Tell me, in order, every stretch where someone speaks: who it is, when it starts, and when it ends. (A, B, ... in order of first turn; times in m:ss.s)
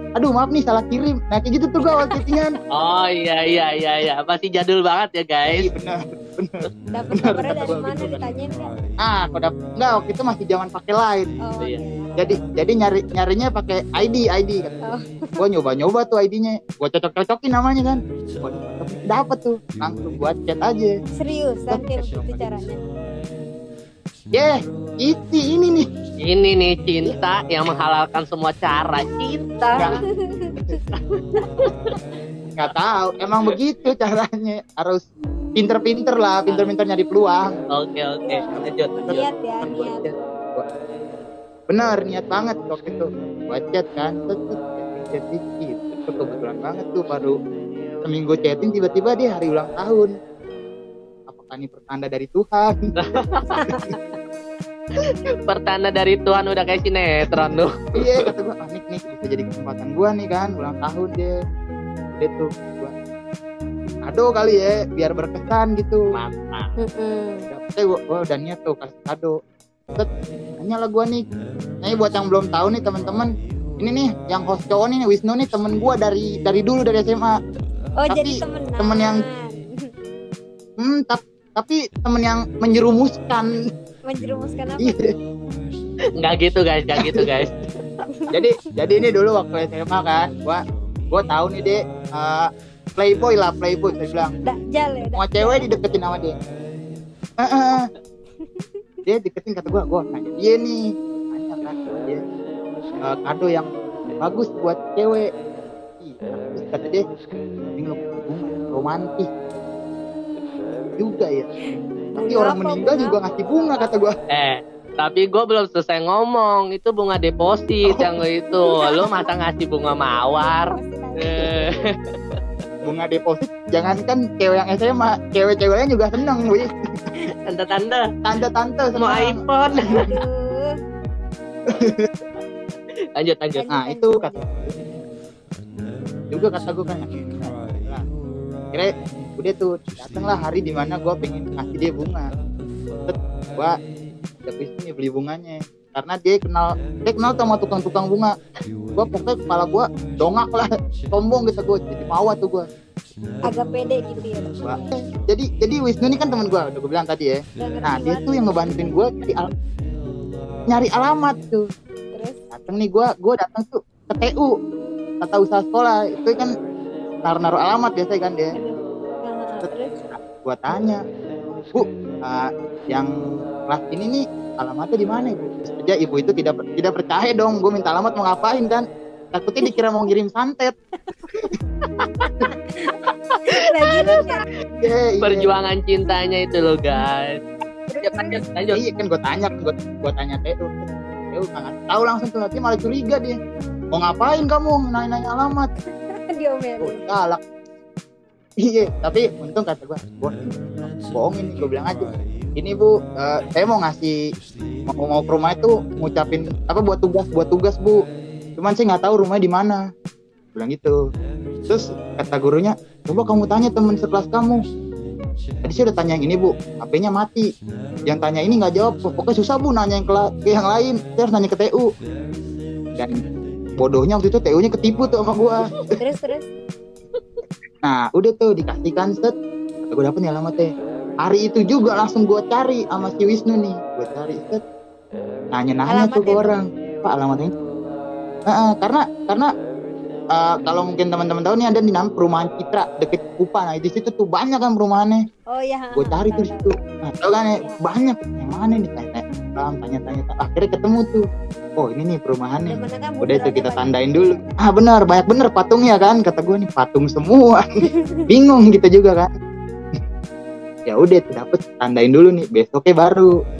0:00.2-0:02.5 A
0:02.7-0:05.7 B
0:05.5-0:06.6 A
0:06.9-0:08.7 C
0:07.2-0:08.2 A
0:09.0-0:11.3 A
0:11.4-0:12.3 C
0:12.2-0:14.8 A
0:14.8-0:15.4 C
0:15.4-0:20.9 A
0:21.2-0:22.8 C
0:21.7-0:22.5 A
0:24.3-0:25.9 A
0:26.2-0:30.0 B
0:29.8-0:30.9 C
0:32.6-0:35.0 A
0:35.6-0:37.6 A
0:36.5-0:36.7 B
0:37.7-0:39.3 B
0:38.2-0:40.1 C
0:38.4-0:40.6 A
0:41.7-0:47.4 A
0:48.0-0:50.1 A
0:51.3-0:52.8 A
0:53.0-0:53.9 B
0:53.6-0:53.9 C
0:55.5-0:58.2 B
0:58.0-1:01.3 A
1:02.1-1:02.9 A
1:04.0-1:06.0 A
1:06.1-1:06.7 B
1:06.8-1:07.5 C
1:07.5-1:09.4 A
1:10.6-1:11.2 A
1:11.8-1:17.4 A
1:18.0-1:19.9 C
1:18.1-1:19.2 A
1:20.8-1:23.5 A
1:24.0-1:25.0 C
1:24.8-1:25.1 A
1:26.2-1:27.6 B
1:28.3-1:34.3 A
1:34.4-1:35.7 C
1:35.1-1:36.3 A
1:37.4-1:37.9 A
1:39.0-1:42.2 A
1:43.1-1:43.7 A
1:44.2-1:45.3 A
1:46.0-1:47.0 A
1:47.8-1:49.3 A
1:51.0-1:51.5 A
1:52.1-1:54.0 C
1:52.2-1:54.1 A
1:54.3-2:00.7 B
1:58.7-1:59.2 C
2:00.4-2:01.7 C
2:01.2-2:01.9 B
2:02.8-2:06.7 A
2:07.4-2:08.0 B
2:08.2-2:10.2 A
2:09.0-2:10.0 B
2:09.8-2:10.7 C
2:11.7-2:12.1 A
2:13.2-2:13.6 B
2:13.5-2:14.6 C
2:13.7-2:14.7 A
2:16.3-2:18.0 A
2:18.7-2:22.3 A
2:23.1-2:23.7 A
2:24.4-2:28.3 A
2:28.9-2:32.7 A
2:33.4-2:34.9 C
2:34.2-2:39.4 A
2:37.6-2:39.0 C
2:40.7-2:41.6 A
2:42.1-2:42.4 C
2:42.5-2:44.5 A
2:45.2-2:46.5 A
2:47.2-2:48.5 A
2:48.5-2:49.9 C
2:49.6-2:51.0 A
2:51.7-2:53.1 A
2:53.7-3:00.7 A
3:02.4-3:03.0 C
3:03.5-3:04.4 C
3:04.8-3:05.5 A
3:05.2-3:07.4 B
3:07.9-3:08.4 C
3:08.0-3:08.8 B
3:08.7-3:13.4 A
3:13.9-3:15.7 A
3:16.1-3:17.1 C
3:16.8-3:17.4 A
3:18.6-3:24.1 A
3:24.9-3:28.0 A
3:28.6-3:29.8 A
3:30.5-3:31.0 A
3:31.7-3:34.6 A
3:35.6-3:37.5 A
3:38.0-3:41.9 A
3:43.8-3:45.7 A
3:46.0-3:46.5 C
3:47.8-3:49.3 A
3:49.8-3:50.7 A
3:51.2-3:54.6 A
3:55.5-3:57.5 A
3:55.9-3:56.6 C
3:58.5-3:59.5 A
4:00.3-4:05.2 A
4:05.5-4:06.8 C
4:05.9-4:11.2 A
4:11.8-4:17.6 A
4:12.7-4:14.6 C
4:17.8-4:18.2 C
4:18.3-4:19.3 A
4:20.9-4:23.3 A